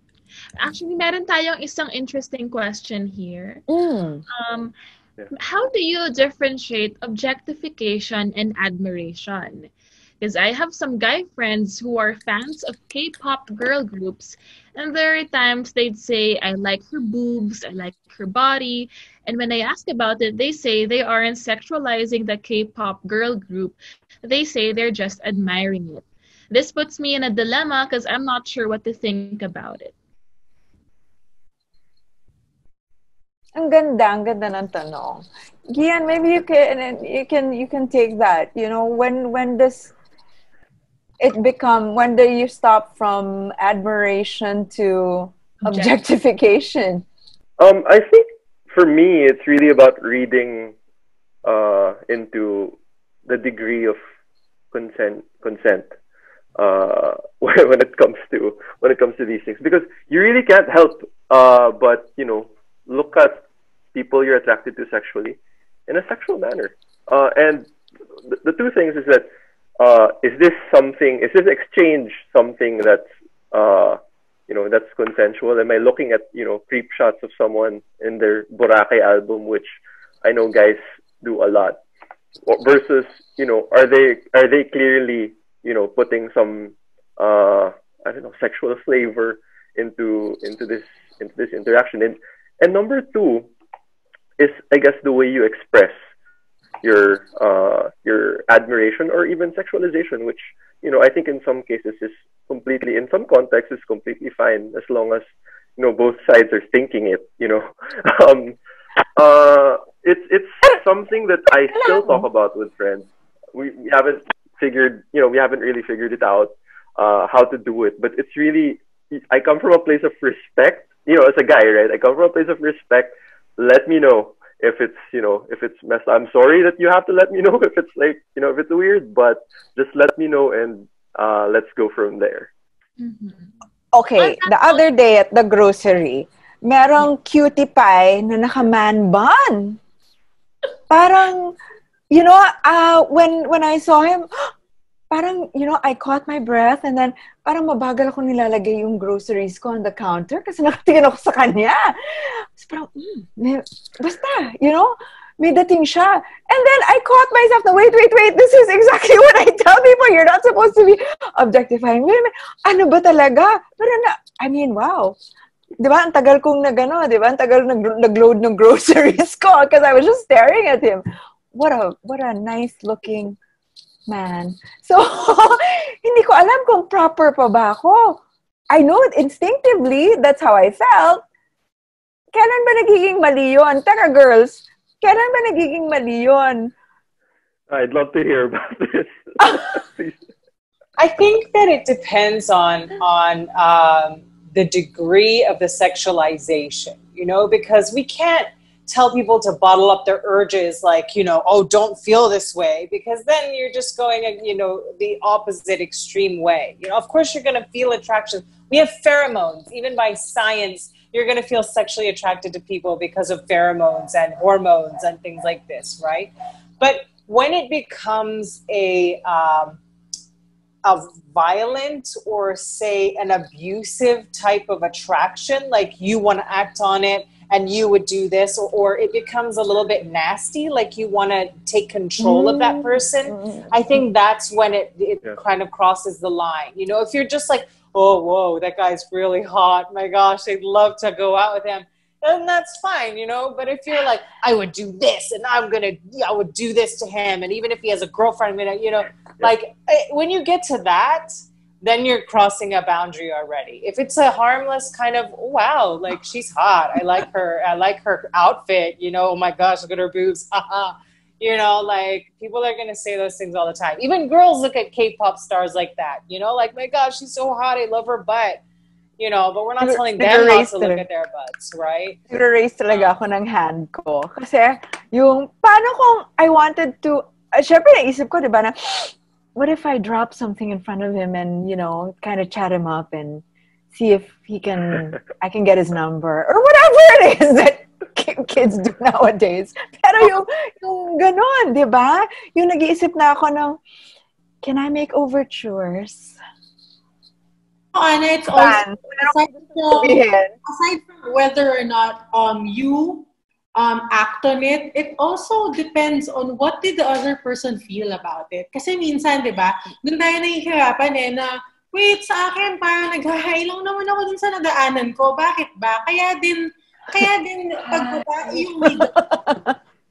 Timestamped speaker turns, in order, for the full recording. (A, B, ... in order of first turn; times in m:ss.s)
0:00.6-0:03.6 A
0:03.7-0:04.2 B
0:04.3-0:04.7 A
0:05.3-0:09.7 A
0:10.2-0:29.9 A
0:33.6-0:39.9 B
0:41.2-0:47.0 B
0:45.6-0:45.9 A
0:47.6-0:50.7 C
0:51.4-0:54.0 C
0:54.7-0:55.9 C
0:56.6-1:05.4 C
1:05.9-1:07.7 C
1:08.3-1:09.3 C
1:09.8-1:19.7 C
1:20.2-1:21.8 C
1:22.5-1:33.5 C
1:34.4-1:36.0 C
1:36.8-1:48.6 C
1:49.2-2:12.5 C
1:51.7-1:52.2 B
2:13.0-2:13.5 A
2:13.9-2:19.8 B
2:14.2-2:14.8 A
2:20.9-2:21.6 B
2:22.1-2:24.5 B
2:25.1-2:45.2 B
2:45.8-2:53.4 B
2:54.1-3:01.2 B
3:02.3-3:06.7 B
3:07.7-3:10.2 C
3:11.0-3:39.8 D
3:40.8-4:28.6 D
3:52.2-3:53.7 B
4:29.2-4:32.2 D
4:29.8-4:31.0 B
4:32.3-4:53.8 B
4:54.6-4:56.4 B
4:57.9-5:19.1 E
4:58.5-4:59.3 B
4:59.9-5:00.5 B
5:17.9-5:19.8 B